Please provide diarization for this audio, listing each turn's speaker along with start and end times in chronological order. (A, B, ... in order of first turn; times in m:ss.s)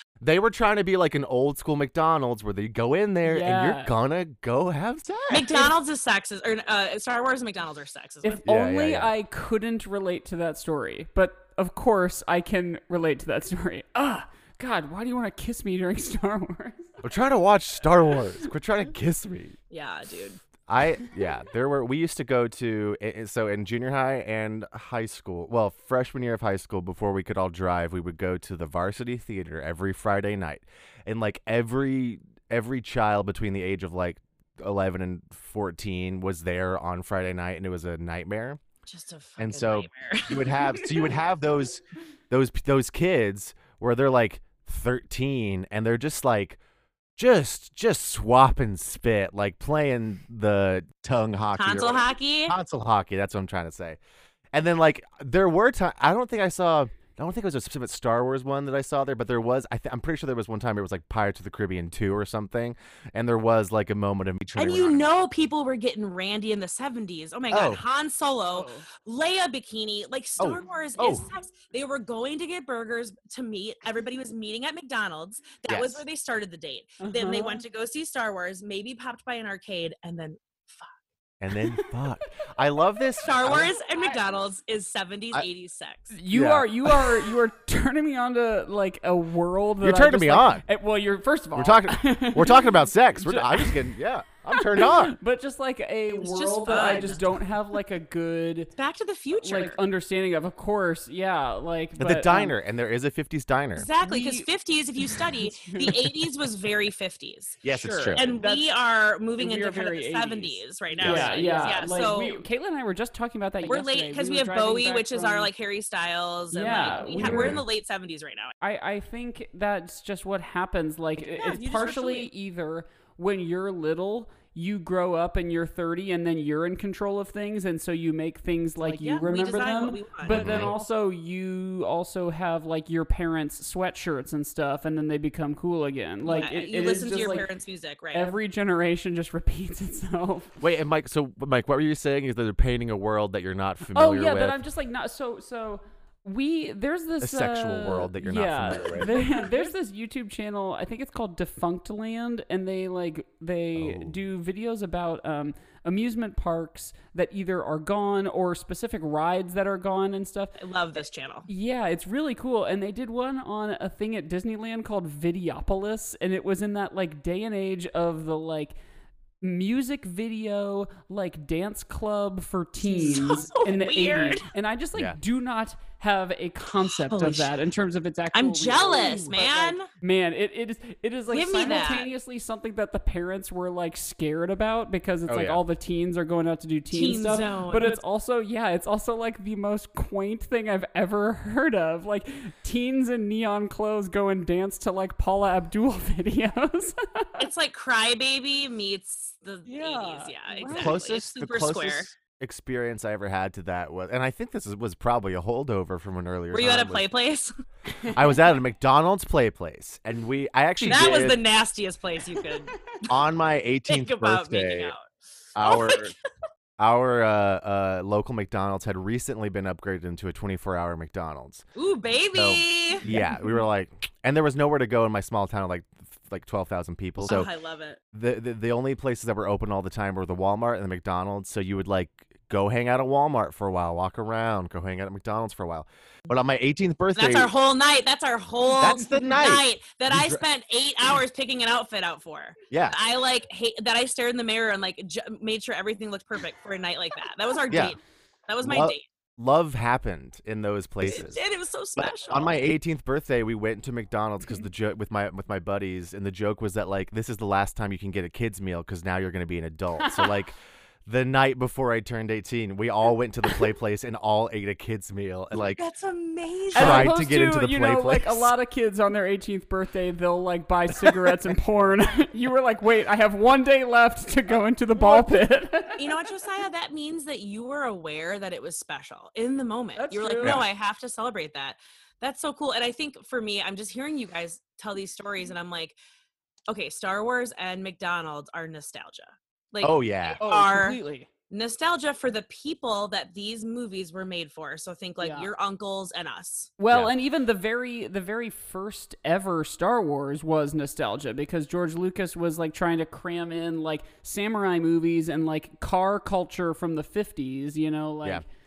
0:00.2-0:05.7 A
0:03.2-0:03.9 B
0:05.3-0:08.4 C
0:08.2-0:16.9 B
0:08.4-0:09.1 A
0:17.0-0:19.6 A
0:19.7-0:20.4 C
0:20.7-0:38.6 A
0:38.9-0:41.1 C
0:39.4-0:46.6 A
0:47.2-0:54.0 A
0:51.6-0:52.5 C
0:54.5-1:05.1 A
1:04.6-1:20.9 C
1:07.5-1:07.8 A
1:08.5-1:08.8 B
1:10.4-1:11.3 A
1:15.7-1:16.0 A
1:17.0-1:17.6 B
1:21.4-1:23.7 A
1:23.2-1:26.1 C
1:26.1-1:33.8 B
1:26.3-1:27.3 A
1:29.8-1:30.6 A
1:31.5-1:35.1 A
1:34.6-1:38.7 B
1:36.2-1:37.2 C
1:38.8-1:39.8 C
1:39.4-1:42.5 B
1:42.0-1:43.9 A
1:43.8-1:47.6 C
1:44.0-1:44.4 B
1:45.4-1:46.0 B
1:47.6-1:48.2 A
1:47.7-1:48.6 B
1:48.1-1:52.4 C
1:49.4-1:55.5 B
1:51.0-1:51.3 A
1:53.6-1:58.5 C
1:56.5-1:57.6 B
1:57.2-1:57.6 A
1:58.6-2:17.4 B
2:01.3-2:02.3 C
2:08.8-2:10.7 C
2:10.3-2:10.7 A
2:16.2-2:18.3 C
2:18.1-2:20.5 B
2:20.6-2:24.6 A
2:23.9-2:40.6 B
2:27.2-2:29.1 A
2:33.8-2:34.2 A
2:40.6-2:41.5 C
2:41.5-2:48.7 B
2:49.4-3:17.4 B
2:52.8-2:54.5 C
2:56.8-2:57.5 C
2:58.3-2:59.9 C
3:01.3-3:02.1 C
3:05.3-3:05.6 A
3:06.9-3:08.0 C
3:17.4-3:22.1 C
3:19.6-3:21.0 B
3:20.6-3:27.1 A
3:26.5-3:27.5 C
3:28.1-3:31.4 A
3:30.8-3:32.8 C
3:33.1-3:34.9 A
3:33.9-3:35.1 C
3:35.5-3:36.1 A
3:35.6-3:36.1 C
3:36.8-3:41.6 A
3:41.8-3:43.1 C
3:42.3-3:47.5 A
3:47.2-3:48.0 C
3:48.1-3:57.5 A
3:57.2-4:09.0 C
3:58.8-4:00.4 A
4:02.7-4:03.0 A
4:07.7-4:08.0 A
4:08.6-4:11.4 A
4:11.0-4:12.7 C
4:12.0-4:20.5 A
4:20.0-4:20.3 B
4:21.0-4:25.8 A
4:25.5-4:27.1 C
4:26.7-4:28.5 A
4:26.7-4:36.1 B
4:36.0-4:46.0 C
4:39.9-4:40.6 B
4:46.7-4:51.0 C
4:49.8-4:50.4 A
4:50.4-4:51.3 B
4:51.5-4:56.7 C
4:55.2-4:55.5 B
4:56.8-5:08.4 B